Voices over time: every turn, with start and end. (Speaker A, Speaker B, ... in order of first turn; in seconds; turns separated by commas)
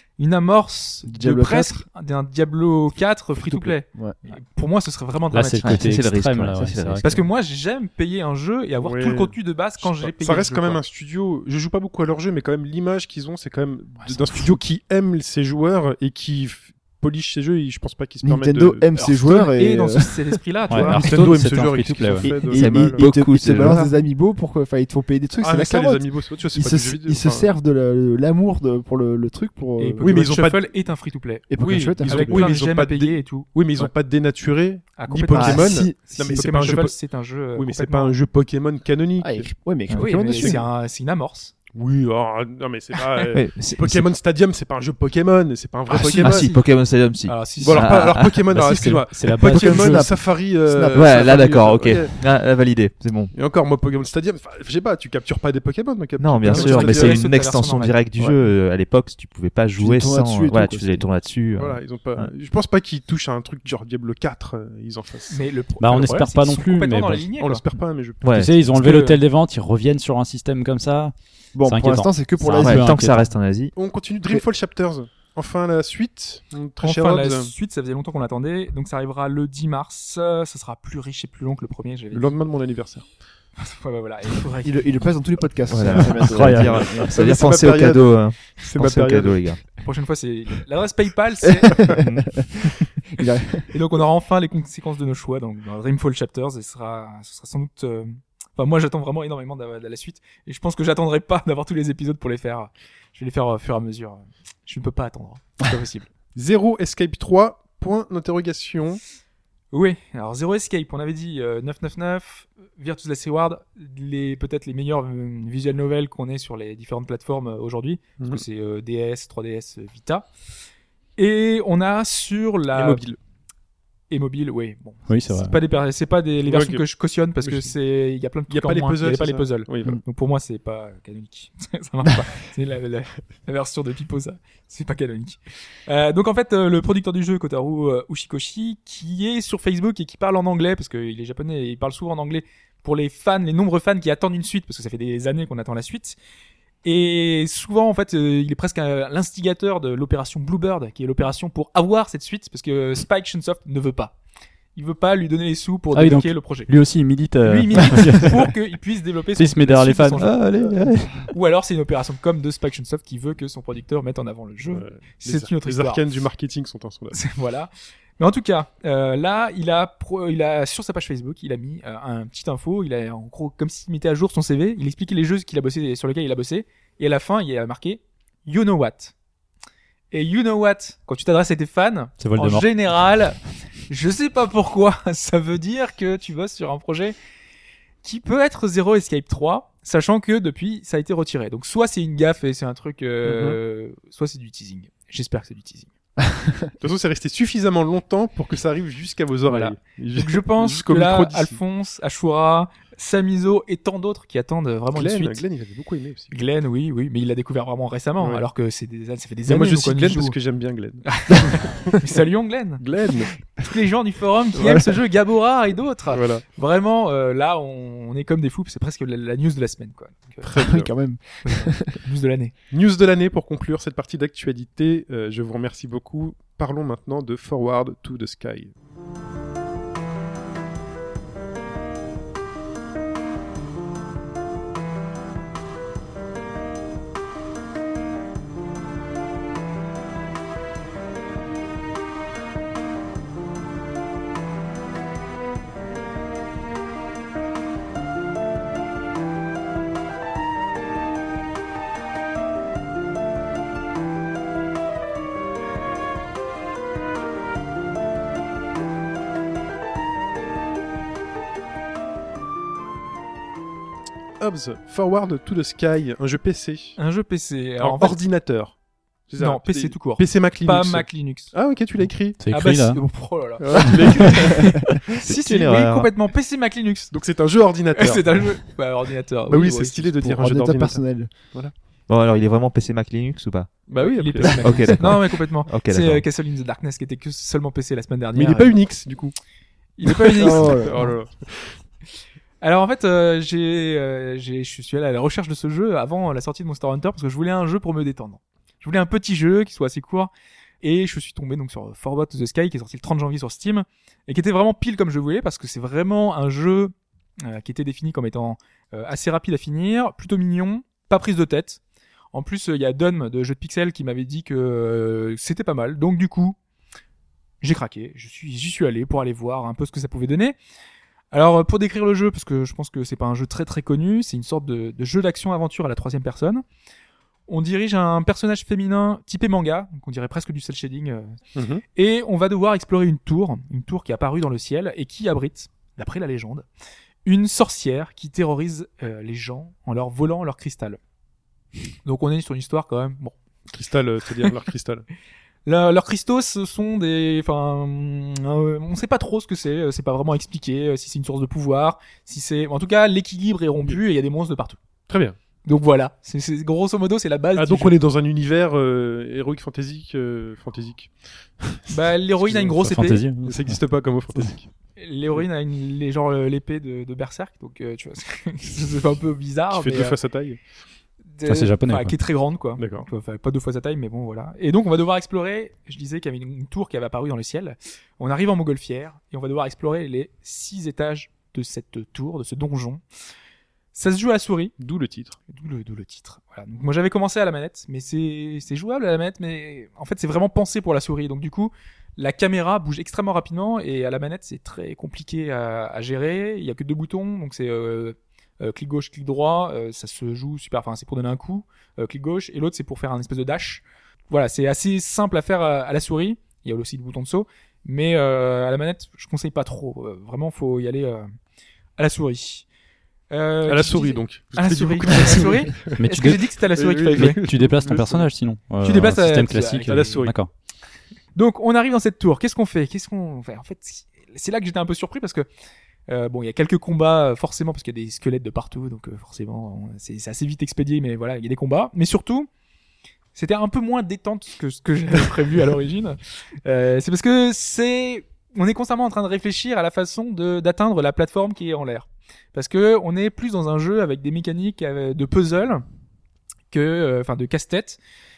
Speaker A: 0.2-5.9, Speaker B: 1.1-1.9, Speaker B: 3.4-4.2, Speaker C: 5.3-7.0, Speaker D: 5.6-7.3, Speaker A: 7.0-10.8, Speaker E: 8.8-18.9, Speaker A: 14.0-14.5, Speaker B: 18.2-20.2, Speaker A: 18.9-21.0, Speaker C: 20.7-22.4, Speaker E: 20.7-23.1, Speaker B: 22.2-30.2, Speaker D: 22.5-23.9, Speaker E: 25.4-27.5, Speaker A: 29.8-33.5, Speaker E: 30.0-30.7, Speaker B: 31.5-32.5, Speaker E: 31.6-37.0, Speaker A: 35.0-38.1, Speaker B: 35.3-36.6, Speaker E: 37.5-39.5, Speaker B: 39.2-40.6, Speaker A: 40.0-41.5, Speaker E: 41.7-46.5, Speaker D: 43.3-44.1, Speaker D: 45.9-48.9, Speaker A: 45.9-46.6, Speaker A: 47.2-48.0, Speaker E: 47.6-52.2, Speaker C: 48.6-50.1, Speaker B: 49.4-51.4, Speaker D: 50.9-53.3, Speaker E: 53.3-57.3, Speaker D: 56.2-62.3, Speaker A: 56.5-58.0, Speaker B: 58.2-58.4, Speaker B: 59.8-61.1, Speaker E: 61.6-65.4, Speaker A: 65.3-67.6, Speaker C: 65.8-67.3, Speaker E: 67.4-69.0, Speaker D: 68.2-68.6, Speaker C: 68.3-71.1, Speaker A: 68.7-69.2, Speaker B: 71.5-73.0, Speaker C: 71.7-73.3, Speaker D: 72.6-73.7, Speaker E: 73.8-77.5, Speaker A: 76.8-82.4, Speaker E: 82.1-83.1, Speaker A: 83.6-85.0, Speaker B: 84.6-87.1, Speaker D: 85.7-89.6, Speaker C: 86.2-87.1, Speaker E: 87.1-89.5, Speaker A: 89.8-91.9, Speaker B: 91.9-93.7, Speaker D: 92.0-92.4, Speaker A: 93.7-106.1, Speaker E: 106.3-109.0, Speaker A: 109.7-120.3, Speaker E: 118.2-118.4, Speaker A: 121.2-123.0, Speaker E: 122.7-123.2, Speaker A: 124.1-146.2, Speaker C: 125.1-125.6, Speaker E: 126.4-126.8, Speaker E: 127.4-127.7, Speaker E: 128.5-130.0, Speaker A: 146.8-154.2, Speaker A: 154.8-156.7, Speaker C: 155.9-158.5, Speaker A: 157.4-160.6, Speaker C: 159.4-161.2, Speaker D: 160.2-160.6, Speaker A: 161.3-166.0, Speaker E: 164.7-167.2, Speaker A: 167.1-179.1, Speaker A: 180.1-183.4, Speaker C: 182.2-182.7, Speaker A: 183.9-187.2, Speaker A: 188.0-195.9, Speaker E: 193.2-193.6, Speaker B: 196.2-196.7, Speaker E: 196.8-201.6, Speaker A: 199.5-205.4, Speaker E: 204.9-206.4, Speaker A: 206.3-210.4, Speaker E: 208.2-208.4, Speaker E: 209.5-212.0, Speaker A: 211.1-212.8, Speaker E: 212.8-213.4, Speaker A: 213.6-220.6, Speaker E: 216.1-216.4, Speaker E: 220.4-220.9, Speaker B: 220.6-222.0, Speaker A: 221.4-222.5, Speaker E: 222.7-228.7, Speaker E: 264.4-267.0, Speaker A: 267.0-268.2, Speaker E: 267.8-268.8, Speaker E: 269.3-272.4, Speaker A: 269.4-271.5, Speaker C: 272.4-273.1, Speaker A: 272.5-277.1, Speaker E: 273.6-274.9, Speaker D: 275.2-276.1, Speaker E: 277.1-278.5, Speaker A: 277.9-280.3, Speaker E: 279.5-281.7, Speaker B: 280.2-281.3, Speaker D: 282.1-283.8, Speaker E: 283.9-284.9, Speaker A: 283.9-288.8, Speaker D: 284.6-286.2, Speaker E: 288.4-289.4, Speaker A: 290.0-291.1, Speaker E: 290.0-291.8, Speaker B: 290.4-291.1, Speaker A: 292.6-311.8, Speaker A: 312.3-316.6, Speaker A: 317.6-320.6, Speaker A: 321.3-326.6, Speaker A: 327.5-331.4, Speaker E: 331.6-331.8, Speaker A: 331.9-336.7, Speaker A: 337.2-341.0, Speaker A: 342.1-343.4, Speaker E: 343.7-345.1, Speaker A: 345.7-354.8, Speaker E: 355.1-355.4, Speaker A: 355.6-358.0, Speaker E: 357.6-361.9, Speaker A: 361.9-363.2, Speaker E: 362.4-362.8, Speaker C: 362.8-364.5, Speaker E: 363.4-364.7, Speaker A: 365.0-370.2, Speaker E: 369.7-370.6, Speaker A: 371.4-383.0, Speaker C: 371.5-372.2, Speaker E: 372.8-373.1, Speaker A: 383.9-384.8, Speaker E: 384.8-385.4, Speaker A: 385.5-411.3, Speaker A: 412.0-412.6, Speaker A: 413.3-417.4, Speaker E: 413.7-416.0, Speaker C: 416.0-416.6, Speaker E: 416.7-418.3, Speaker C: 417.1-420.5, Speaker A: 418.8-420.3, Speaker E: 419.9-420.4, Speaker A: 421.4-425.5, Speaker A: 426.1-432.5, Speaker A: 433.4-445.8, Speaker A: 446.7-448.0